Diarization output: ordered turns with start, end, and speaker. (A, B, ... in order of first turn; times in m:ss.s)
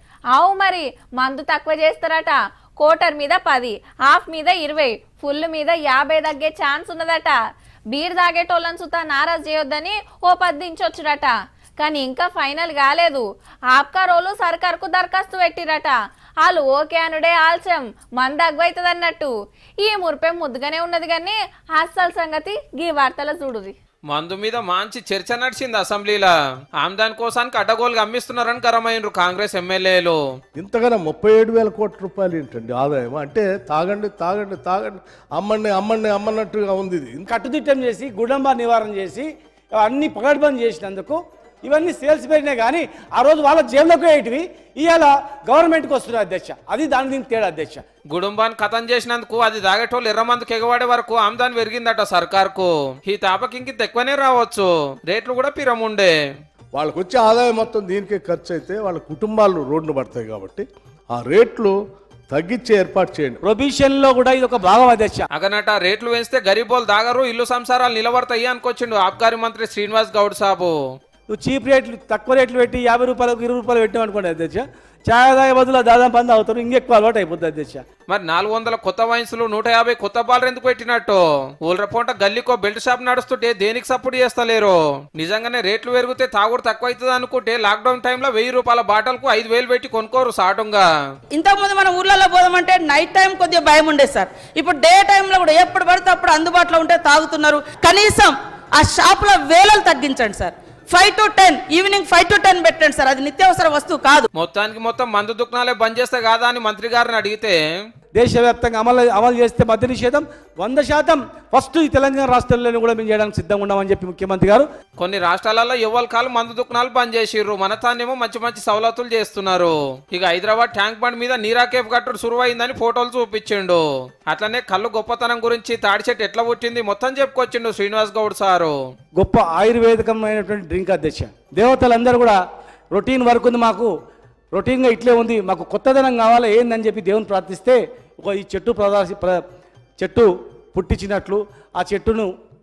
0:00.3-0:07.4 A
0:07.9-0:23.7 A
0:24.1-0:30.2 B
0:30.5-0:37.3 C
0:37.3-0:47.8 D
0:48.1-0:56.1 B
0:56.7-1:01.7 C
1:02.3-1:03.4 C
1:03.4-1:05.3 D
1:05.3-1:10.7 B
1:11.3-1:17.8 D
1:18.1-1:30.8 B
1:31.4-1:44.2 E
1:44.3-1:47.6 B
1:48.1-1:54.6 D
1:55.0-2:08.7 B
2:09.1-2:12.4 D
2:12.9-2:13.9 D
2:14.5-2:19.4 D
2:20.0-2:22.3 D